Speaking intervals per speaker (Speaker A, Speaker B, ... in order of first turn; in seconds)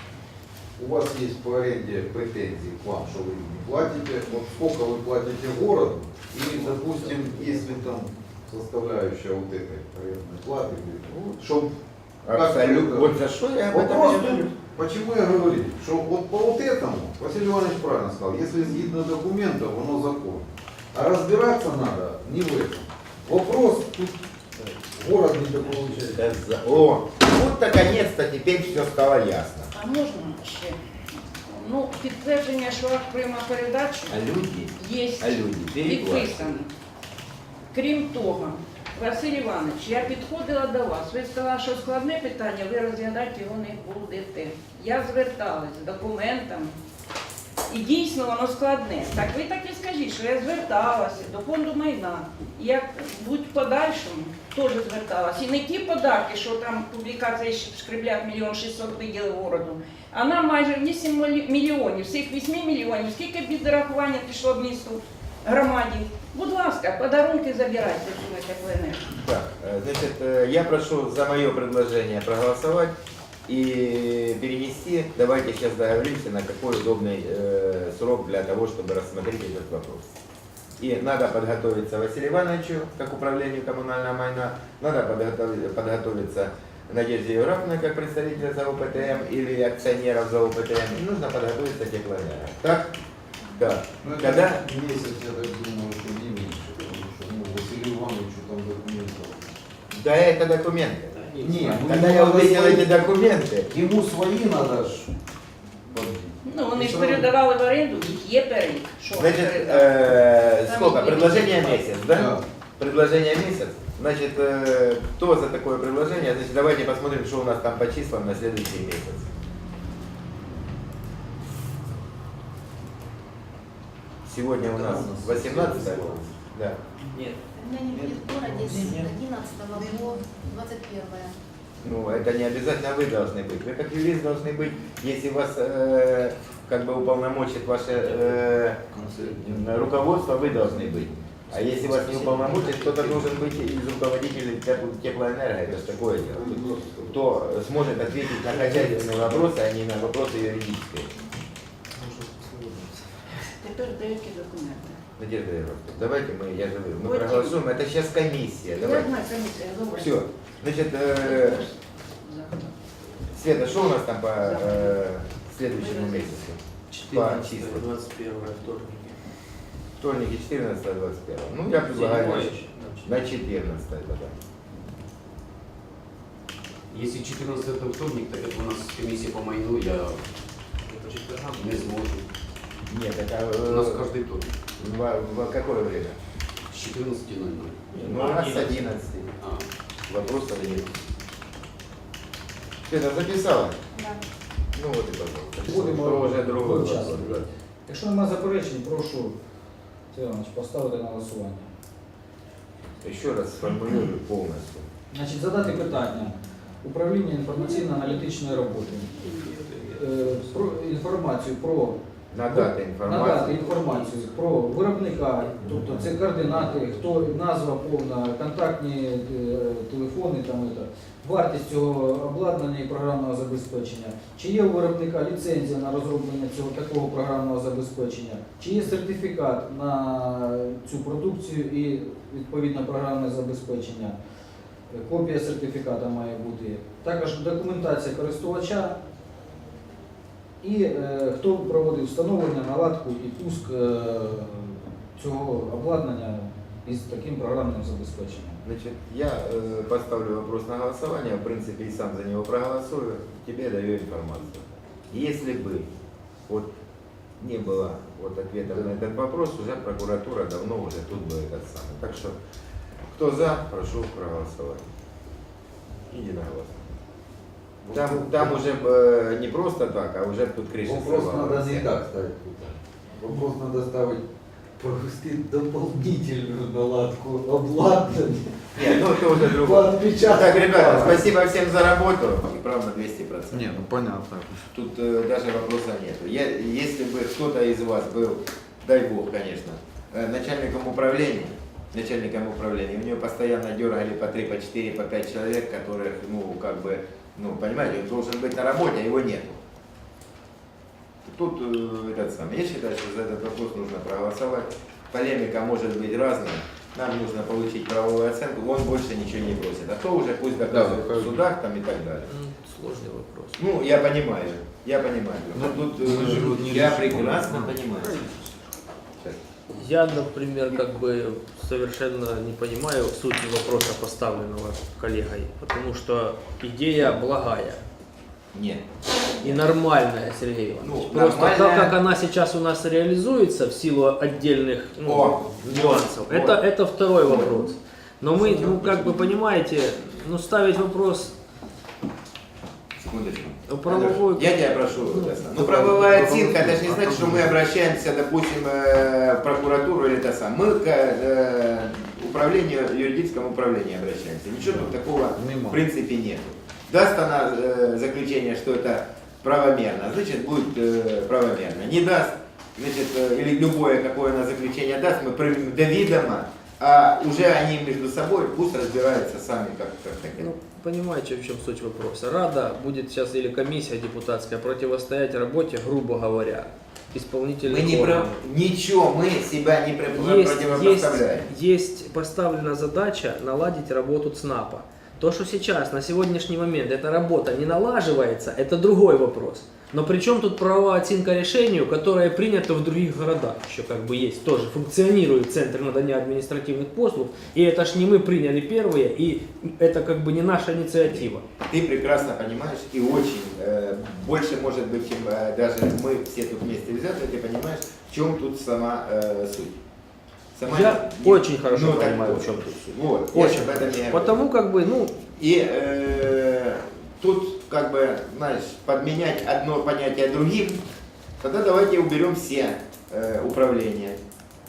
Speaker A: 0.8-11.8, 12.3-13.2, 13.7-24.2, 24.9-26.7, 94.0-99.5, 101.3-103.0, 103.7-105.1, 105.9-107.3, 112.1-112.4, 124.7-126.3, 128.0-128.8, 138.9-140.9, 142.1-143.3, 146.3-147.2, 267.8-268.6, 270.9-274.3, 274.8-281.3, 283.5-284.7, 310.6-311.4, 315.5-317.8, 354.6-355.8
Speaker B: 11.1-11.4, 12.2-14.5, 26.1-29.7, 34.1-36.6, 69.2-72.9, 73.5-80.1, 80.8-92.9, 93.6-94.6, 99.9-103.7, 109.1-119.3, 124.2-126.8, 131.8-138.8, 139.4-151.1, 155.2-159.1, 159.9-161.6, 163.3-167.9, 170.0-174.4, 182.9-184.1, 184.8-186.2, 187.9-189.3, 190.1-190.9, 192.9-193.8, 194.7-197.5, 203.0-204.9, 212.3-214.0, 248.6-255.9, 256.5-256.7, 257.4-262.4, 263.1-264.9, 266.1-266.8, 267.9-271.9, 278.8-283.7, 284.7-299.6, 301.2-312.3, 313.6-318.2, 328.5-328.8, 329.4-329.7, 330.8-332.0, 335.0-336.6, 337.2-337.7, 338.4-339.3, 343.0-370.5, 377.6-381.5, 401.0-409.8, 410.6-414.4, 415.4-420.8, 421.4-424.2
Speaker C: 29.7-30.8, 31.4-34.2, 34.8-36.7, 37.7-46.8, 47.7-69.1, 106.4-112.1, 153.6-155.0, 157.0-157.6, 158.7-160.2, 161.2-162.8, 164.4-165.0, 165.7-166.4
Speaker D: 101.2-101.6, 127.1-127.4, 128.4-129.2, 141.6-143.1, 148.4-149.5, 152.0-153.1, 166.9-169.2, 171.8-173.2, 180.9-181.9, 187.9-188.9, 209.2-210.6, 312.2-313.6, 318.0-318.6, 319.7-327.8, 329.4-341.3, 343.7-347.5, 370.4-378.4, 380.1-401.4, 410.7-412.8, 413.3-415.2
Speaker E: 127.6-131.3
Speaker F: 176.9-180.2, 181.6-182.2, 183.6-184.5, 186.7-187.9, 189.4-189.7
Speaker G: 195.6-199.4, 200.1-201.7, 205.1-209.2, 209.9-234.2, 234.9-239.0, 240.6-248.6